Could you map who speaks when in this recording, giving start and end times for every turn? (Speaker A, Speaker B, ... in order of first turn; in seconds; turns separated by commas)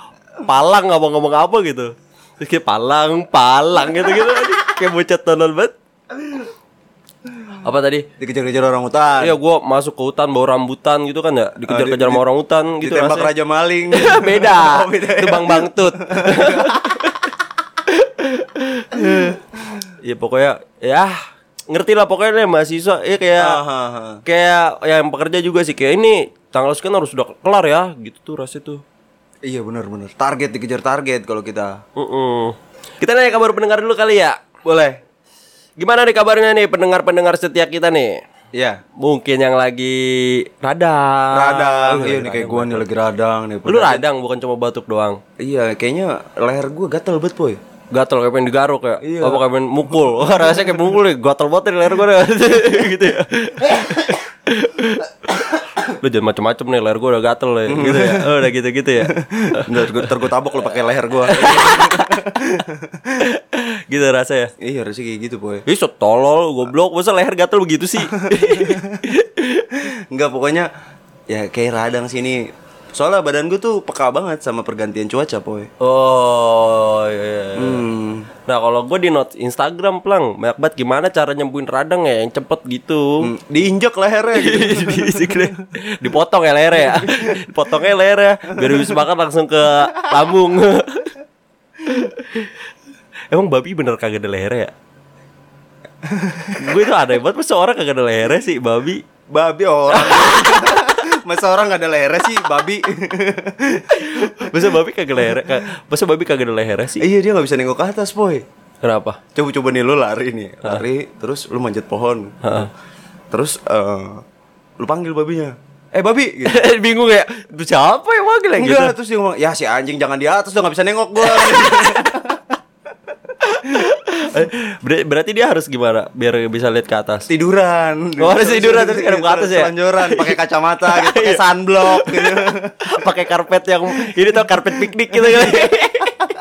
Speaker A: 0.4-5.7, Speaker A: 7.6-8.1, Speaker B: 8.2-9.3, Speaker A: 9.2-13.3, Speaker B: 11.6-12.2, Speaker B: 12.8-17.1, Speaker A: 13.9-17.3, Speaker A: 17.8-19.4, Speaker B: 18.9-19.4, Speaker A: 20.0-21.2, Speaker A: 21.7-23.6, Speaker B: 23.4-24.2, Speaker A: 24.2-28.8, Speaker B: 29.4-31.8, Speaker A: 31.9-34.5, Speaker B: 34.6-35.0, Speaker A: 35.8-38.2, Speaker B: 38.5-38.8, Speaker A: 39.0-42.8, Speaker B: 41.3-44.0, Speaker A: 43.6-45.2, Speaker B: 45.4-47.6, Speaker A: 47.9-60.1, Speaker B: 49.0-49.4, Speaker B: 57.7-58.4, Speaker B: 59.0-63.2, Speaker A: 61.2-62.2, Speaker A: 63.2-64.5, Speaker B: 64.6-65.6, Speaker A: 65.7-69.8, Speaker B: 68.0-69.0, Speaker B: 69.7-70.7, Speaker B: 71.3-75.7, Speaker A: 75.8-77.8, Speaker B: 77.5-78.3, Speaker A: 78.5-83.3, Speaker B: 83.2-85.5, Speaker A: 84.3-91.2, Speaker B: 86.8-87.3, Speaker B: 88.6-88.9, Speaker A: 91.8-92.5, Speaker A: 93.3-94.7, Speaker B: 96.0-96.6, Speaker A: 96.5-99.0, Speaker B: 99.3-105.6, Speaker A: 99.9-101.0, Speaker A: 103.9-107.0, Speaker B: 107.0-108.4, Speaker A: 108.8-109.2, Speaker B: 109.3-112.7, Speaker A: 112.4-112.7, Speaker B: 113.3-114.2, Speaker B: 114.8-116.7, Speaker A: 116.4-118.9, Speaker B: 118.6-122.5, Speaker A: 121.4-122.0, Speaker A: 123.4-127.3, Speaker B: 127.3-132.8, Speaker A: 128.2-136.3, Speaker B: 134.1-134.6, Speaker B: 135.1-135.8